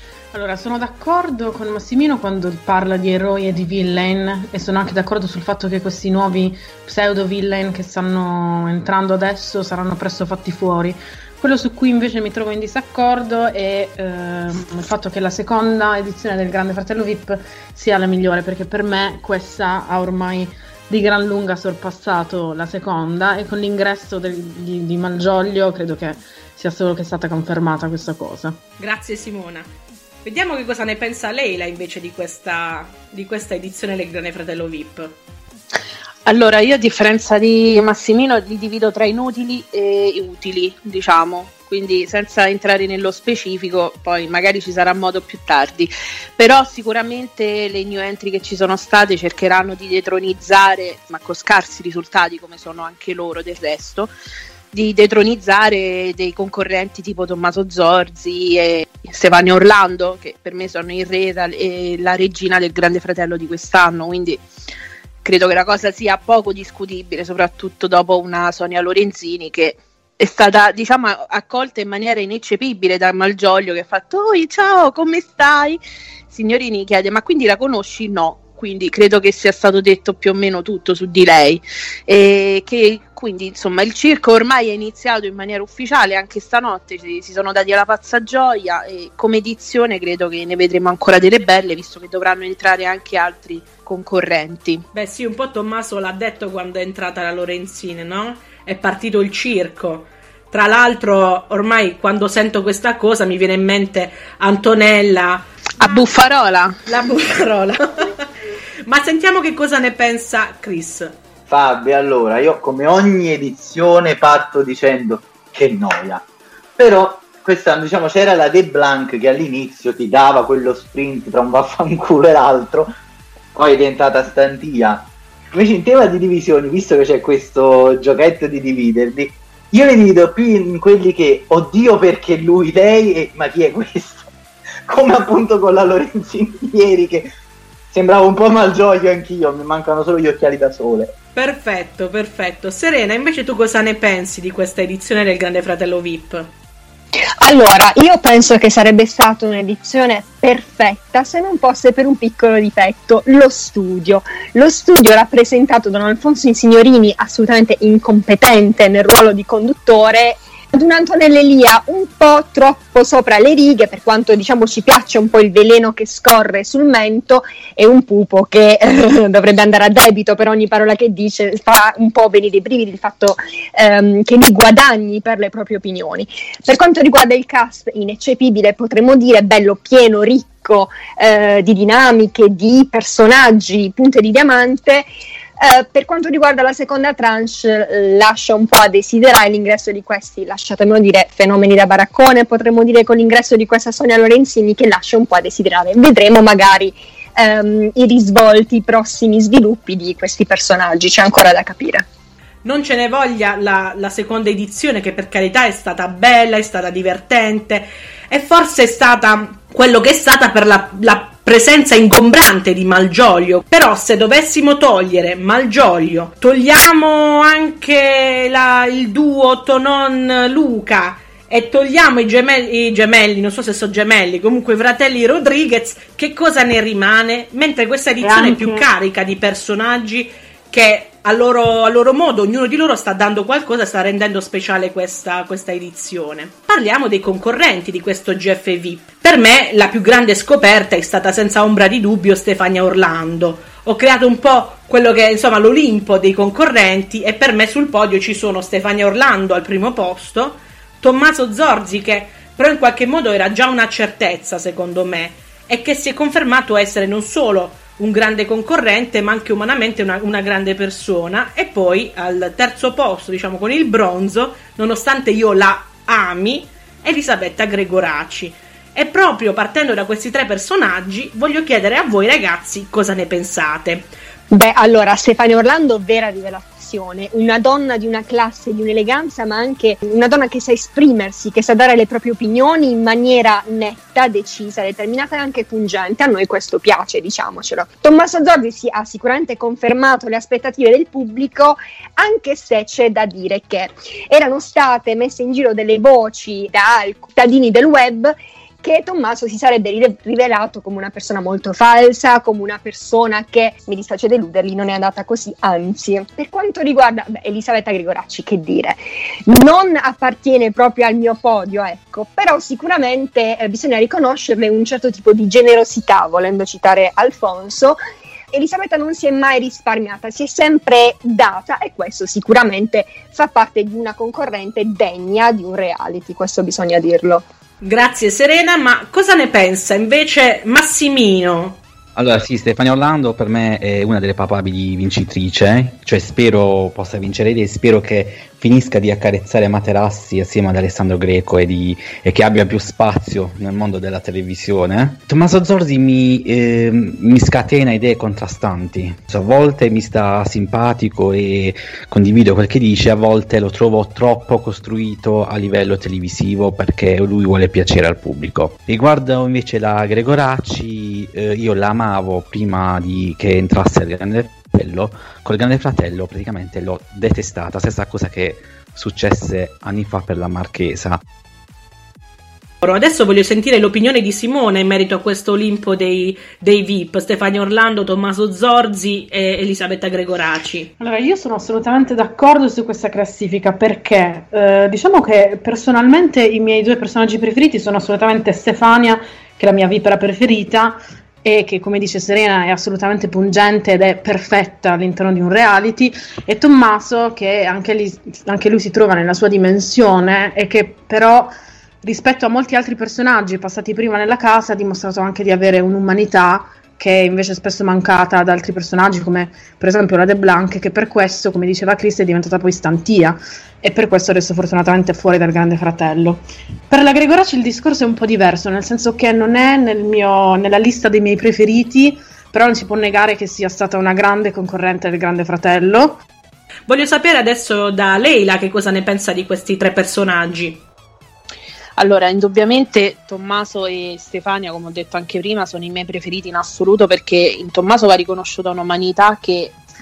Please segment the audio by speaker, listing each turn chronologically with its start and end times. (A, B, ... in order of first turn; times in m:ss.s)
0:00.3-0:28.6 A
0:28.8-0:29.7 B
0:30.2-0:35.2 B
0:36.2-0:54.1 C
0:54.7-1:04.5 C
1:05.2-1:34.8 C
1:34.9-1:46.0 B
1:45.8-1:47.0 C
1:46.9-1:48.3 B
1:48.8-1:51.2 B
1:51.5-1:56.2 D
1:56.8-2:02.9 D
2:03.6-2:14.3 D
2:14.9-2:17.3 D
2:17.9-2:21.1 D
2:21.4-2:26.5 B
2:27.4-3:05.1 E
3:05.6-3:22.0 E
3:22.6-4:34.1 B
3:48.2-3:48.9 A
4:34.5-5:18.0 E
5:18.5-5:27.4 E
5:27.8-5:31.8 B
5:32.2-6:11.2 F
6:12.8-6:20.9 B
6:21.0-7:06.2 A
7:06.9-7:10.8 B
7:12.0-7:19.8 C